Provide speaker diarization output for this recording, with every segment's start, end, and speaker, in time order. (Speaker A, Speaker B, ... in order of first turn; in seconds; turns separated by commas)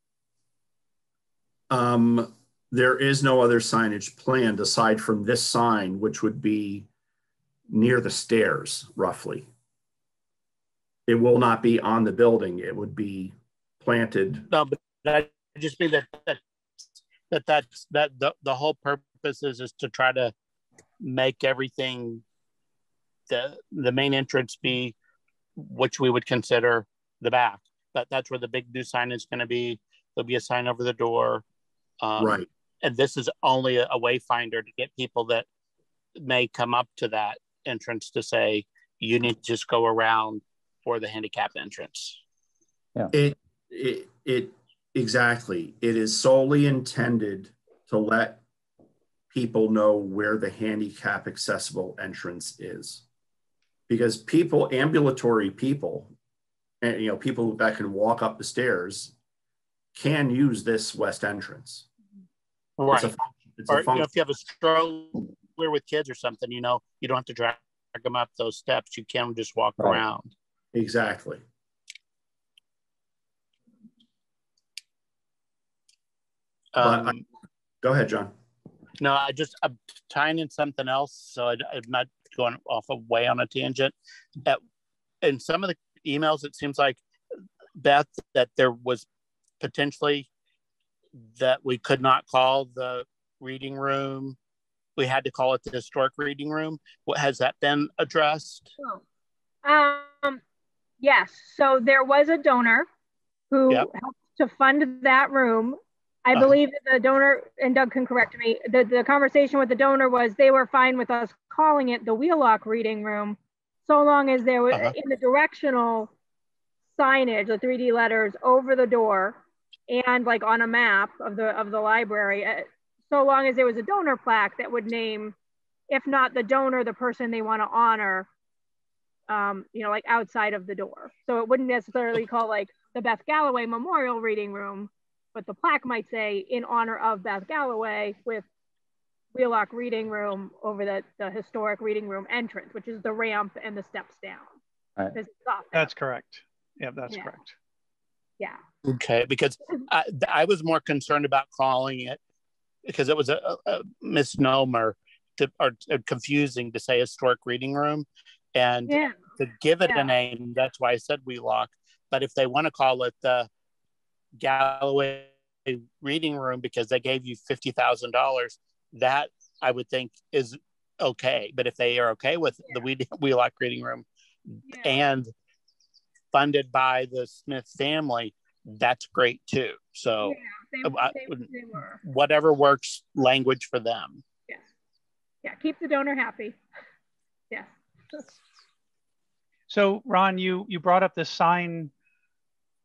Speaker A: 1.7-6.9, Speaker A: 7.7-9.5, Speaker A: 11.1-14.5, Speaker B: 14.5-16.4, Speaker B: 17.3-20.3, Speaker B: 21.0-22.2, Speaker B: 23.3-24.9, Speaker B: 25.6-31.4, Speaker B: 32.0-35.5, Speaker A: 32.2-32.5, Speaker B: 36.2-42.2, Speaker A: 43.1-48.4, Speaker A: 49.3-53.0, Speaker A: 53.9-56.1, Speaker A: 56.8-59.1, Speaker A: 60.0-61.9, Speaker B: 62.8-63.1, Speaker A: 62.9-64.1, Speaker B: 63.7-70.3, Speaker A: 70.7-71.4, Speaker B: 76.7-77.2, Speaker A: 76.8-77.2, Speaker A: 77.8-78.3, Speaker B: 79.0-84.6, Speaker B: 85.2-87.0, Speaker B: 87.8-89.0, Speaker B: 89.6-90.3, Speaker B: 91.4-94.4, Speaker B: 95.0-98.7, Speaker C: 99.6-100.4, Speaker C: 101.0-102.9, Speaker C: 103.5-116.1, Speaker C: 116.9-125.3, Speaker C: 125.9-128.3, Speaker C: 129.3-138.5, Speaker C: 139.3-144.5, Speaker C: 145.1-145.9, Speaker D: 145.7-147.6, Speaker C: 147.1-147.3, Speaker B: 148.8-152.2, Speaker B: 152.8-163.5, Speaker C: 158.9-159.2, Speaker C: 159.9-160.1, Speaker B: 164.4-174.1, Speaker C: 174.7-175.0, Speaker B: 174.8-175.3, Speaker B: 176.3-181.5, Speaker C: 180.2-182.0, Speaker B: 182.0-184.2, Speaker C: 185.4-186.6, Speaker C: 187.5-188.2, Speaker D: 189.7-191.9